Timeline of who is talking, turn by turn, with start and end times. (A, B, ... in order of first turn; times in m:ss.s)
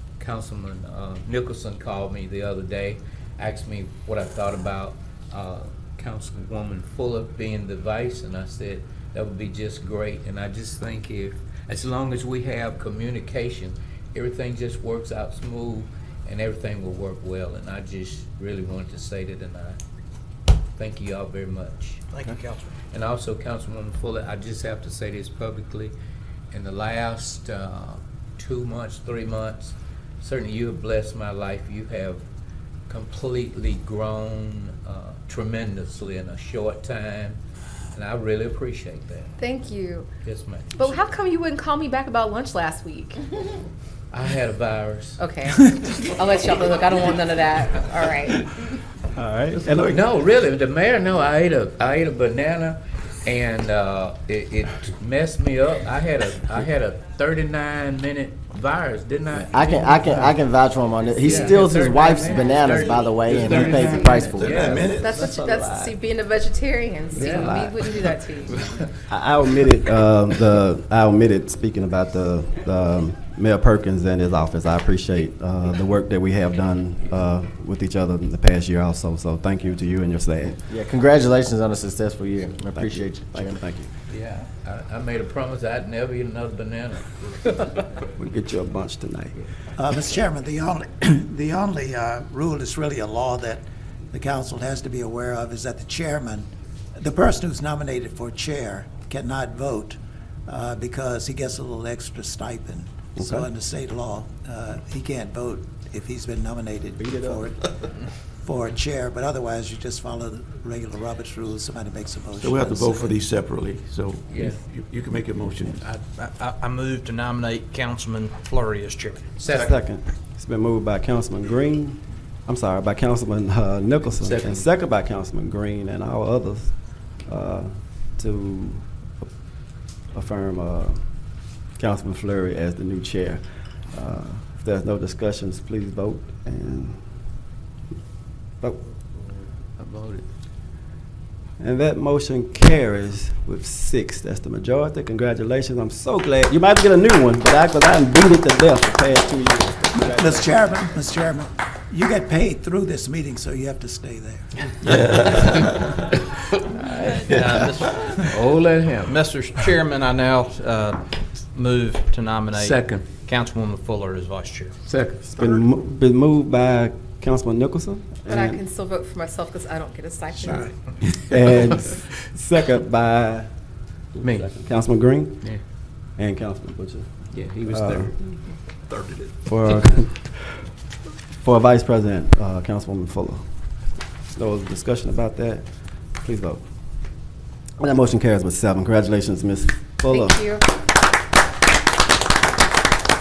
0:00.2-0:19.8 A
0:20.8-0:22.1 A
0:22.1-0:22.7 B
0:22.9-0:25.9 A
0:26.5-0:32.2 A
0:32.9-0:37.4 A
0:37.9-0:39.3 A
0:39.4-0:40.1 C
0:40.2-0:41.0 A
0:40.8-0:43.2 C
0:44.1-0:45.2 A
0:45.2-0:48.5 C
0:49.2-0:50.0 D
0:49.9-1:00.3 A
0:59.4-1:04.6 E
1:01.2-1:05.0 A
1:03.2-1:05.3 F
1:03.8-1:04.2 C
1:05.0-1:08.6 C
1:05.1-1:05.9 D
1:07.1-1:07.7 D
1:07.1-1:07.7 A
1:09.1-1:20.7 D
1:20.7-1:23.6 E
1:22.8-1:23.9 D
1:24.1-1:27.8 A
1:28.2-1:29.4 D
1:29.8-1:47.6 G
1:43.2-1:43.5 D
1:47.0-1:47.5 D
1:48.4-1:53.2 G
1:52.4-1:55.9 F
1:54.3-1:54.6 A
1:55.8-1:59.4 B
1:59.4-1:59.8 A
1:59.5-2:09.3 D
2:04.2-2:04.7 A
2:10.1-2:11.0 D
2:11.8-2:17.0 D
2:19.8-2:20.3 A
2:21.6-2:30.6 D
2:30.0-2:34.5 G
2:34.8-2:35.9 F
2:35.3-2:35.7 A
2:37.0-2:38.2 B
2:38.2-2:39.2 A
2:39.1-2:41.0 B
2:41.5-2:44.7 B
2:42.5-2:43.1 A
2:44.9-2:45.2 A
2:45.2-2:48.6 D
2:48.3-2:50.8 C
2:50.4-2:50.7 F
2:51.0-2:53.5 D
2:54.1-2:55.5 D
2:54.2-2:54.6 A
2:56.2-2:58.2 D
2:57.3-2:58.2 A
2:58.9-2:59.4 F
2:59.5-3:00.6 D
3:01.4-3:03.4 D
3:04.3-3:06.6 D
3:07.8-3:10.5 D
3:10.1-3:10.6 C